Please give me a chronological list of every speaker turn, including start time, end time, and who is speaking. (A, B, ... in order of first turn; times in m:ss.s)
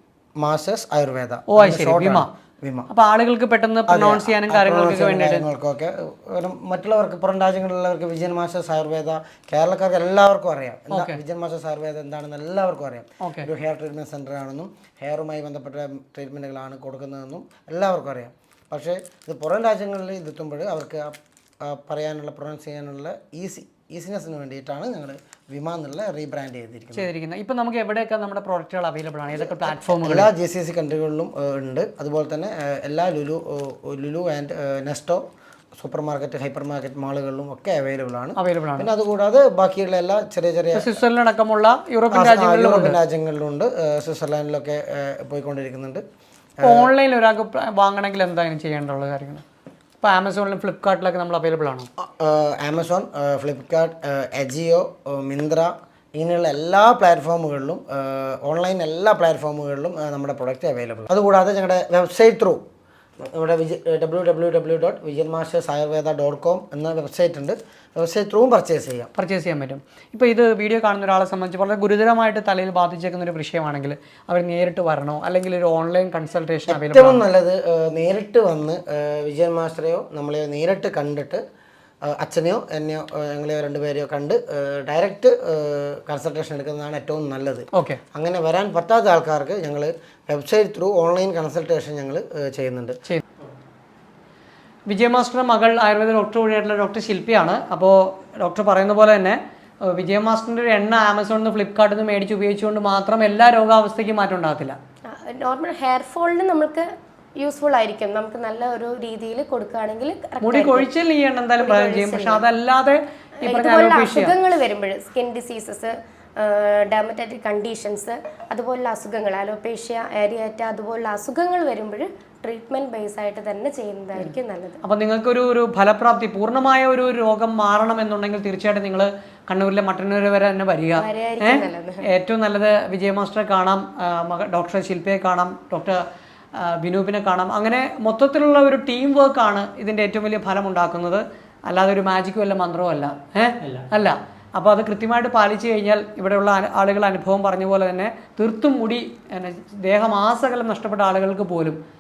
0:00.4-0:02.9 A
0:01.5-0:02.3 B
0:02.9-0:05.4 B
0:03.9-0:27.1 A
0:10.9-0:11.2 B
0:13.2-0:13.5 B
0:26.9-0:30.3 B
0:29.3-0:35.2 A
0:35.8-0:41.0 A
0:38.4-0:38.9 B
0:40.7-0:43.0 B
0:42.1-0:46.0 A
0:46.6-0:46.9 A
0:46.6-0:49.4 B
0:50.0-0:51.9 B
0:52.0-1:02.6 A
1:03.2-1:09.1 A
1:09.2-1:17.2 B
1:16.7-1:21.4 A
1:22.0-1:33.0 A
1:27.7-1:28.0 B
1:34.9-1:44.8 B
1:45.1-1:50.9 C
1:50.4-1:54.4 B
1:51.6-1:52.5 C
1:53.4-2:04.8 C
2:04.8-2:16.0 B
2:11.0-2:12.1 C
2:16.6-2:31.8 B